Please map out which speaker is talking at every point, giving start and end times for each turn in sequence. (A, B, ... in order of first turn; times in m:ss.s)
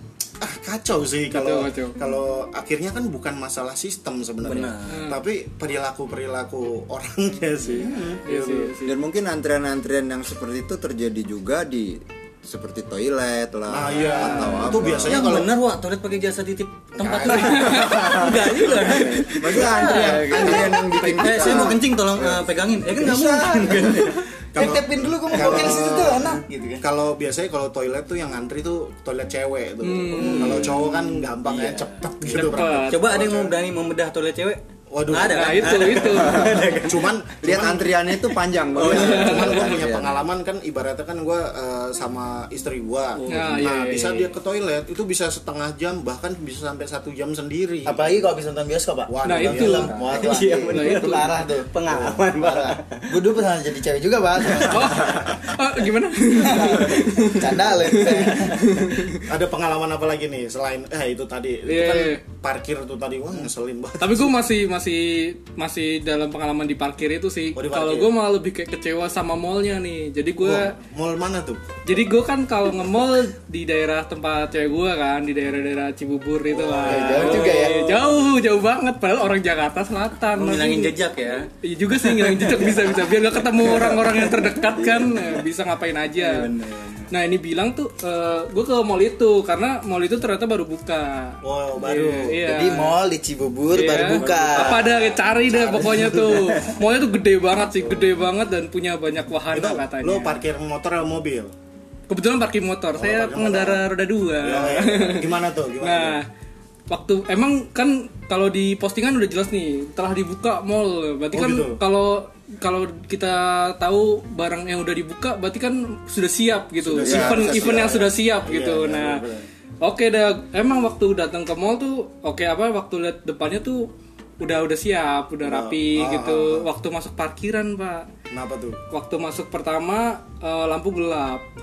0:00.4-0:08.7 A
0:01.3-0:02.0 B
0:04.4-0:05.0 C
0:04.9-0:05.2 B
0:07.7-0:08.2 D
0:08.2-0:09.0 B
0:08.8-0:15.4 E
0:13.7-0:15.5 A
0:14.2-0:14.5 B
0:14.4-0:24.2 C
0:17.0-0:18.1 A
0:17.3-0:19.5 B
0:17.8-0:21.8 E
0:19.9-0:20.5 D
0:20.4-0:21.7 B
0:22.1-0:22.4 A
0:22.9-0:24.0 D
0:24.5-0:33.5 A
0:24.5-0:26.8 D
0:29.8-0:30.9 B
0:30.2-0:30.7 D
0:31.4-0:37.1 C
0:32.3-0:33.1 B
0:34.9-0:38.2 A
0:35.2-0:36.7 B
0:37.4-0:40.2 E
0:38.7-0:39.5 C
0:38.7-0:48.1 A
0:38.9-0:39.8 B
0:43.2-0:43.6 C
0:43.3-0:44.3 B
0:47.8-0:55.3 D
0:49.1-0:50.4 A
0:49.2-0:51.3 B
0:50.1-0:53.1 C
0:54.6-0:59.2 B
0:56.3-0:58.8 D
0:59.2-1:04.3 A
1:01.7-1:02.2 B
1:04.0-1:10.7 B
1:07.6-1:08.1 A
1:10.4-1:11.6 A
1:11.8-1:20.9 B
1:16.8-1:17.8 D
1:16.8-1:18.3 C
1:16.9-1:17.2 A
1:20.3-1:21.5 C
1:21.6-1:26.5 B
1:22.0-1:22.9 C
1:24.7-1:25.2 E
1:26.2-1:27.1 E
1:27.1-1:33.0 B
1:31.4-1:32.4 A
1:32.4-1:35.9 D
1:33.7-1:40.4 B
1:35.4-1:36.7 A
1:37.8-1:38.1 A
1:39.5-1:41.5 A
1:42.1-1:46.2 B
1:42.9-1:46.2 A
1:46.9-1:59.2 B
1:51.3-1:51.8 A
1:56.8-1:59.5 A
1:57.0-1:58.0 E
1:59.8-2:08.1 B
2:05.4-2:06.7 A
2:08.3-2:08.8 A
2:08.9-2:11.4 B